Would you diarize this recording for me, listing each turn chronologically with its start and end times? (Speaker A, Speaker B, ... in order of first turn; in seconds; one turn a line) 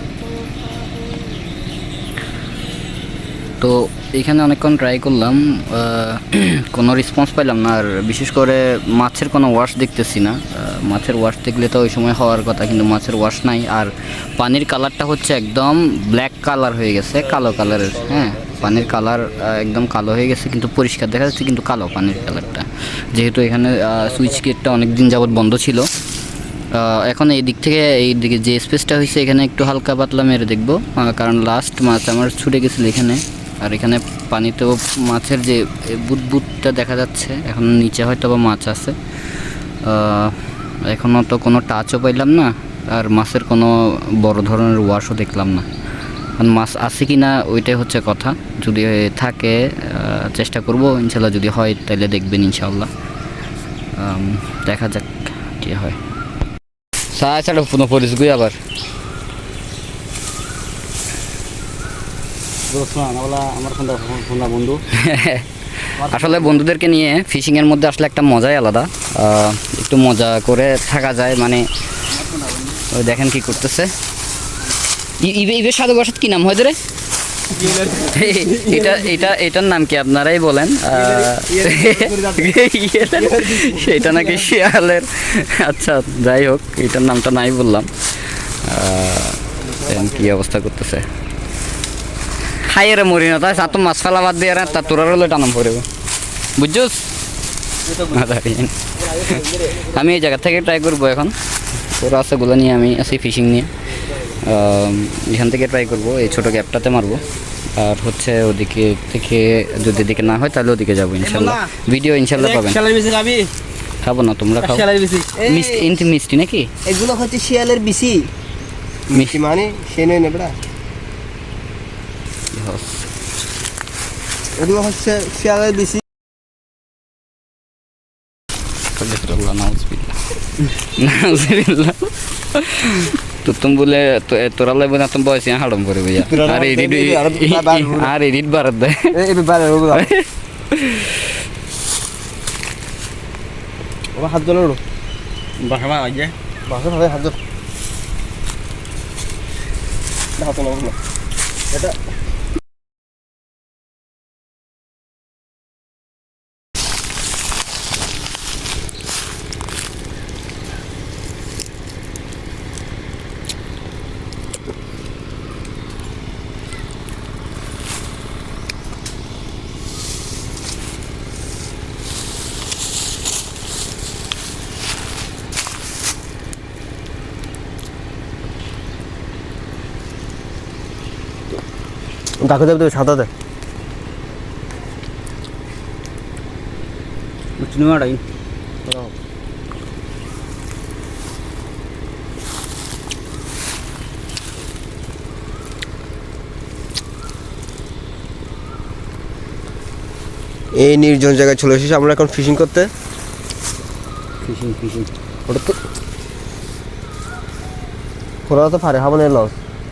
Speaker A: 3.6-25.9
Speaker B: 17.2-19.6
Speaker B: 24.1-24.4
Speaker A: 26.7-39.0
Speaker A: 39.8-45.7
Speaker A: 46.4-52.9
Speaker A: 54.0-56.0
Speaker A: 57.1-58.6
Speaker C: 62.7-64.8
Speaker A: 64.9-71.7
Speaker C: 66.0-66.6
Speaker C: 72.2-72.7
Speaker A: 72.8-73.9
Speaker A: 75.2-76.8
Speaker B: 77.6-78.8
Speaker C: 77.6-78.1
Speaker A: 77.9-91.1
Speaker B: 81.1-82.5
Speaker C: 81.6-82.1
Speaker B: 83.2-84.3
Speaker A: 92.5-95.9
Speaker A: 96.6-97.1
Speaker C: 97.9-98.2
Speaker A: 98.0-112.8
Speaker C: 111.2-111.7
Speaker C: 112.4-113.5
Speaker A: 114.0-114.9
Speaker C: 114.6-115.4
Speaker B: 115.4-115.9
Speaker A: 115.4-116.7
Speaker B: 116.8-118.3
Speaker B: 119.1-120.6
Speaker A: 119.1-119.4
Speaker A: 122.5-123.1
Speaker B: 124.6-126.0
Speaker A: 128.9-139.2
Speaker B: 136.2-138.1
Speaker B: 139.1-140.1
Speaker A: 139.9-141.3
Speaker B: 144.2-144.8
Speaker C: 145.6-146.3
Speaker B: 146.7-147.4
Speaker B: 150.4-151.0
Speaker B: 182.4-183.3
Speaker C: 187.6-188.2
Speaker B: 188.8-189.1
Speaker B: 200.7-202.9
Speaker A: 204.4-205.1
Speaker B: 205.5-205.7
Speaker B: 208.5-209.6